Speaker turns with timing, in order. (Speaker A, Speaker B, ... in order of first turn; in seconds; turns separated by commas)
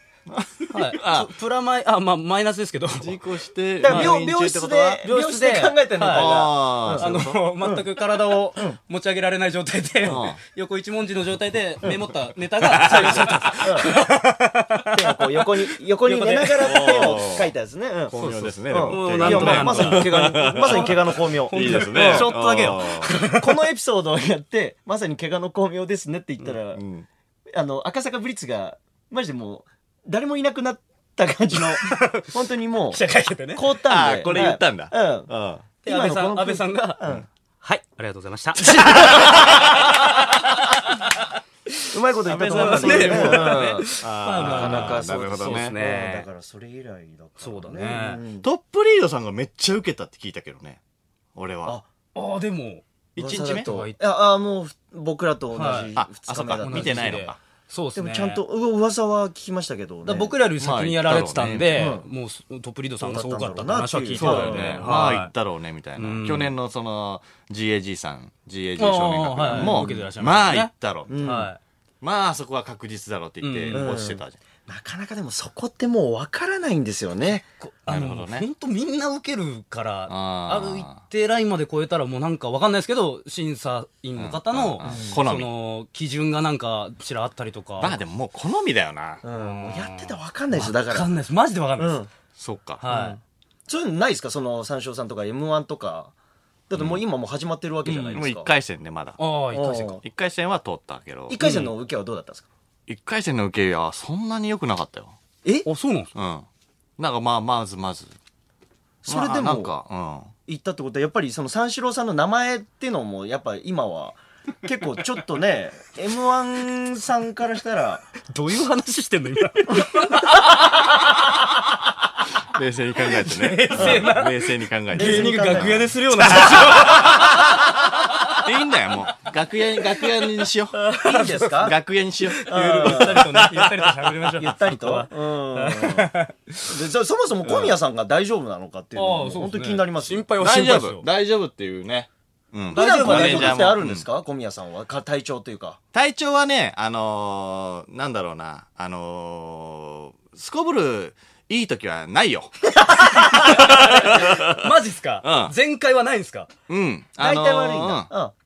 Speaker A: 0.3-1.3, Speaker B: 0.7-3.2, Speaker A: 3.0-5.0, Speaker C: 3.8-7.1, Speaker B: 3.8-4.2, Speaker B: 5.0-6.3, Speaker A: 6.1-7.4, Speaker B: 6.9-15.2, Speaker A: 10.0-10.4, Speaker A: 12.6-13.7, Speaker C: 12.8-13.9, Speaker C: 14.9-22.3, Speaker B: 16.0-17.2, Speaker A: 16.6-17.5, Speaker A: 18.1-23.1, Speaker B: 18.1-23.5, Speaker C: 23.3-26.8, Speaker A: 26.7-27.1, Speaker C: 27.5-33.0, Speaker B: 31.5-33.7, Speaker C: 33.5-35.3, Speaker A: 33.8-35.6, Speaker C: 35.8-37.2, Speaker B: 35.8-37.0, Speaker B: 37.6-39.7, Speaker C: 38.7-39.3, Speaker A: 38.9-39.8, Speaker C: 41.9-48.5, Speaker A: 42.2-45.7, Speaker B: 42.4-46.2, Speaker B: 47.4-48.2, Speaker A: 48.4-50.8, Speaker A: 51.3-51.8, Speaker B: 52.1-52.8, Speaker A: 53.1-53.7, Speaker C: 53.2-57.3, Speaker B: 53.6-54.0, Speaker B: 55.5-55.9, Speaker A: 56.0-57.4, Speaker B: 56.6-58.4, Speaker C: 58.0-60.3, Speaker B: 60.0-65.3, Speaker A: 60.6-61.9, Speaker C: 61.7-62.0, Speaker C: 63.0-64.9, Speaker A: 64.2-71.2, Speaker B: 66.0-66.5, Speaker B: 68.8-70.7, Speaker C: 69.5-69.9, Speaker C: 71.1-71.5, Speaker B: 71.2-71.6, Speaker A: 72.0-74.4, Speaker B: 73.4-73.9, Speaker C: 73.7-77.4, Speaker B: 77.6-88.0, Speaker A: 77.9-78.5, Speaker A: 80.1-81.0, Speaker A: 84.2-85.5, Speaker C: 84.8-85.1, Speaker A: 87.8-89.2, Speaker C: 89.2-91.1, Speaker B: 89.3-92.0, Speaker C: 91.8-92.1, Speaker A: 92.4-92.8, Speaker B: 92.8-93.2, Speaker C: 92.9-96.1, Speaker C: 96.7-98.5, Speaker A: 96.7-97.0, Speaker B: 97.9-98.2, Speaker A: 98.1-99.2, Speaker B: 99.2-100.0, Speaker C: 99.5-100.0, Speaker A: 100.0-101.6, Speaker C: 101.3-102.5, Speaker B: 101.4-101.7, Speaker A: 102.9-105.2, Speaker B: 105.6-106.1, Speaker A: 106.1-106.5, Speaker A: 107.0-108.2, Speaker C: 109.0-109.7, Speaker A: 109.1-110.3, Speaker C: 110.5-118.1, Speaker B: 118.3-121.3, Speaker A: 122.5-127.4, Speaker B: 123.0-127.4, Speaker C: 123.7-124.1, Speaker C: 124.9-125.9, Speaker A: 128.4-130.8, Speaker C: 130.7-131.8, Speaker B: 131.0-131.7, Speaker A: 131.6-134.2, Speaker B: 132.2-136.7, Speaker C: 132.5-133.4, Speaker C: 134.4-140.3, Speaker A: 137.5-137.7, Speaker B: 138.9-141.0, Speaker A: 140.4-144.1, Speaker C: 142.7-145.8, Speaker B: 142.7-143.7, Speaker A: 145.9-152.7, Speaker B: 153.3-156.5, Speaker A: 153.3-154.7, Speaker A: 155.2-155.5, Speaker A: 156.7-158.1, Speaker C: 157.2-158.3